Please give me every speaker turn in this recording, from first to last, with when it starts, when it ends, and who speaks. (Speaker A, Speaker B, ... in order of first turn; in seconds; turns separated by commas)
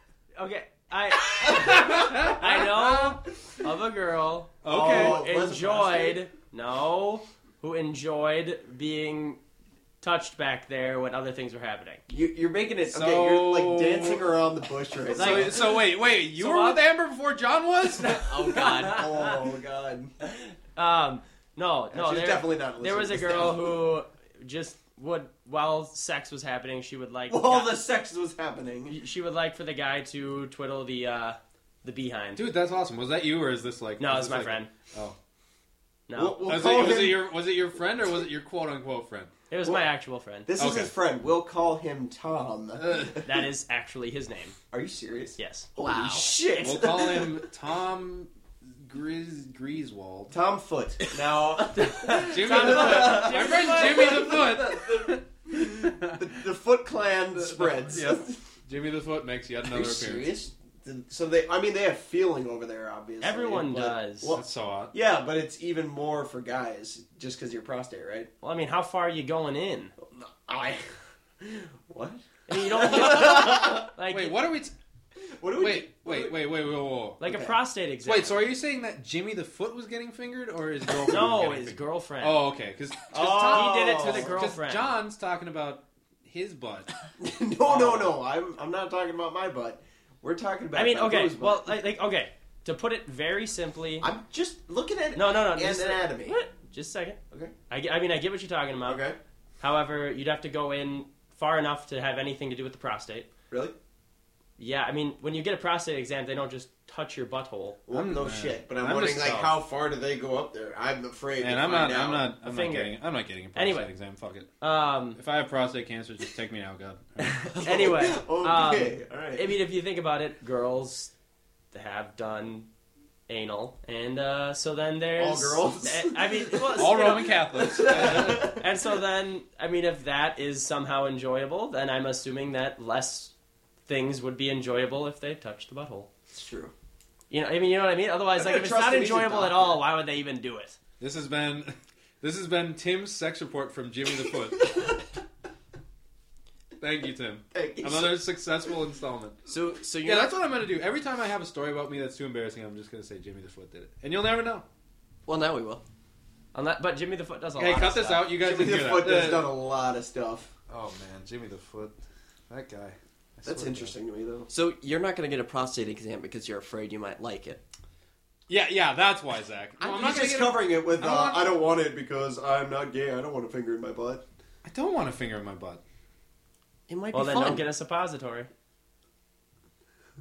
Speaker A: 0.3-9.4, Speaker B: 1.3-3.2, Speaker B: 4.6-5.3, Speaker C: 4.7-6.2, Speaker A: 10.0-12.0, Speaker C: 12.1-15.8, Speaker B: 12.9-14.2, Speaker B: 15.1-18.5, Speaker A: 15.2-16.8, Speaker A: 18.0-19.4, Speaker D: 18.1-19.1, Speaker C: 18.6-20.1, Speaker A: 20.3-27.7, Speaker C: 21.9-23.8, Speaker C: 27.3-29.0, Speaker A: 28.9-32.4, Speaker B: 32.4-35.1, Speaker A: 34.0-34.7, Speaker A: 36.1-36.5, Speaker C: 36.1-37.3, Speaker B: 36.4-39.3, Speaker A: 39.5-40.5, Speaker C: 40.5-43.2, Speaker B: 40.6-40.9, Speaker B: 42.8-43.2, Speaker A: 43.2-44.6, Speaker C: 44.7-47.4, Speaker A: 45.4-45.7, Speaker D: 45.8-46.3, Speaker B: 46.6-50.3, Speaker C: 50.3-58.4, Speaker A: 51.7-54.4, Speaker B: 52.1-56.3, Speaker B: 57.4-60.3, Speaker C: 59.6-68.3, Speaker A: 63.2-64.4, Speaker B: 64.3-64.9, Speaker A: 68.4-69.9, Speaker C: 70.0-70.9, Speaker C: 71.4-73.9, Speaker A: 72.5-74.4, Speaker B: 73.5-74.7, Speaker C: 75.4-76.4, Speaker B: 75.6-77.2, Speaker A: 77.2-78.4, Speaker C: 77.2-77.5, Speaker B: 78.0-86.9, Speaker A: 81.1-82.4, Speaker C: 83.1-84.4, Speaker A: 83.3-84.9, Speaker C: 87.2-91.8, Speaker A: 87.7-88.1, Speaker A: 90.7-94.1, Speaker C: 94.0-96.4, Speaker A: 95.1-99.0, Speaker C: 98.8-99.2, Speaker A: 99.6-103.3, Speaker C: 103.5-103.8, Speaker A: 104.6-107.8, Speaker C: 107.9-112.3, Speaker B: 107.9-109.6, Speaker B: 111.4-114.5, Speaker A: 112.4-112.9, Speaker A: 113.5-113.9, Speaker A: 114.6-115.2, Speaker B: 115.1-117.6, Speaker A: 117.3-121.1, Speaker C: 117.6-119.6, Speaker A: 121.7-122.7, Speaker A: 123.3-133.3, Speaker C: 125.2-128.7, Speaker B: 126.7-128.7, Speaker A: 133.9-136.1, Speaker C: 136.3-136.7, Speaker A: 137.3-140.8, Speaker C: 138.3-139.8, Speaker B: 141.0-145.0, Speaker B: 146.8-149.4, Speaker C: 147.5-148.2, Speaker D: 149.5-150.4, Speaker B: 150.0-154.6, Speaker D: 155.3-155.8, Speaker A: 156.5-158.3, Speaker B: 157.6-159.5, Speaker C: 158.4-160.5, Speaker B: 160.7-162.0, Speaker B: 162.5-163.9, Speaker C: 163.4-164.5, Speaker D: 164.5-167.6, Speaker B: 168.5-171.5, Speaker C: 169.8-174.2, Speaker B: 174.6-175.8, Speaker D: 176.9-177.7, Speaker A: 177.1-178.5